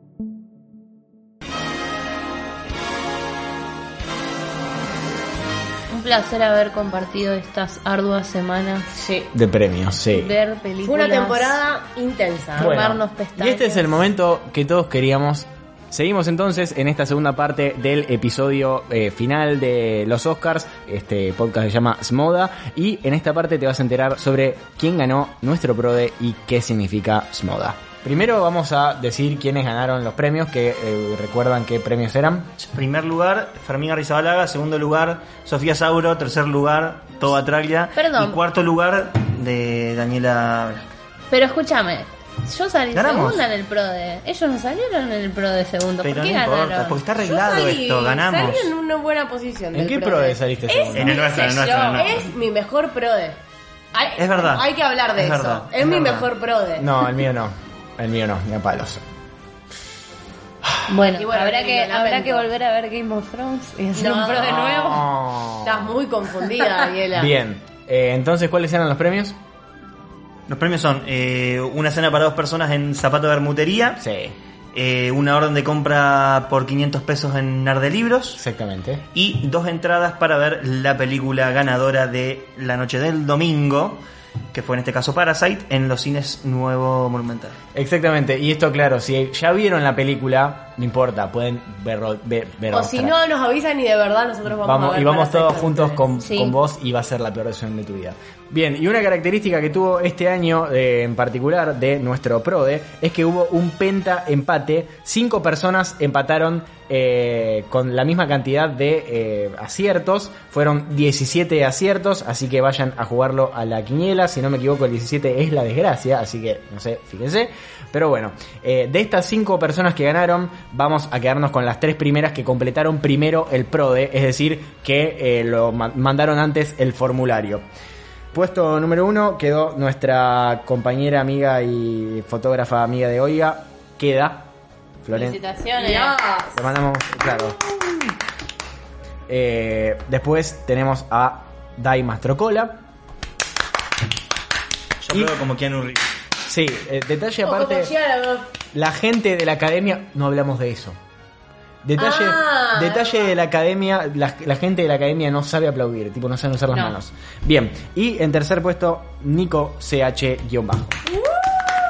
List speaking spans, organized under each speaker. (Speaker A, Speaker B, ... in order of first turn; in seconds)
Speaker A: 5.9-8.9, 10.1-11.6, 12.6-13.9, 37.9-38.4, 41.3-47.0, 51.2-52.1, 60.9-65.0, 96.2-96.5, 135.1-136.2
Speaker B: 8.9-9.3, 10.8-12.8, 47.2-53.4, 53.9-56.9, 61.1-62.5, 63.9-64.9, 65.6-67.3, 92.7-96.0, 135.8-136.6, 147.4-148.5, 151.9-153.3
Speaker C: 9.3-10.3, 12.6-32.5, 49.7-51.2, 56.8-59.0, 64.3-66.0, 67.1-69.3, 74.0-74.3, 78.3-79.0, 87.7-93.1, 94.6-127.6, 128.3-134.5, 135.0-135.4, 136.5-137.6, 139.3-142.8, 146.5-147.9, 148.7-151.0, 151.8-161.0
Speaker D: 32.6-40.9, 42.9-43.4, 46.0-48.7, 50.9-52.2, 54.2-56.3, 70.5-74.0, 74.7-78.4, 79.1-84.0, 84.5-87.5, 145.0-146.1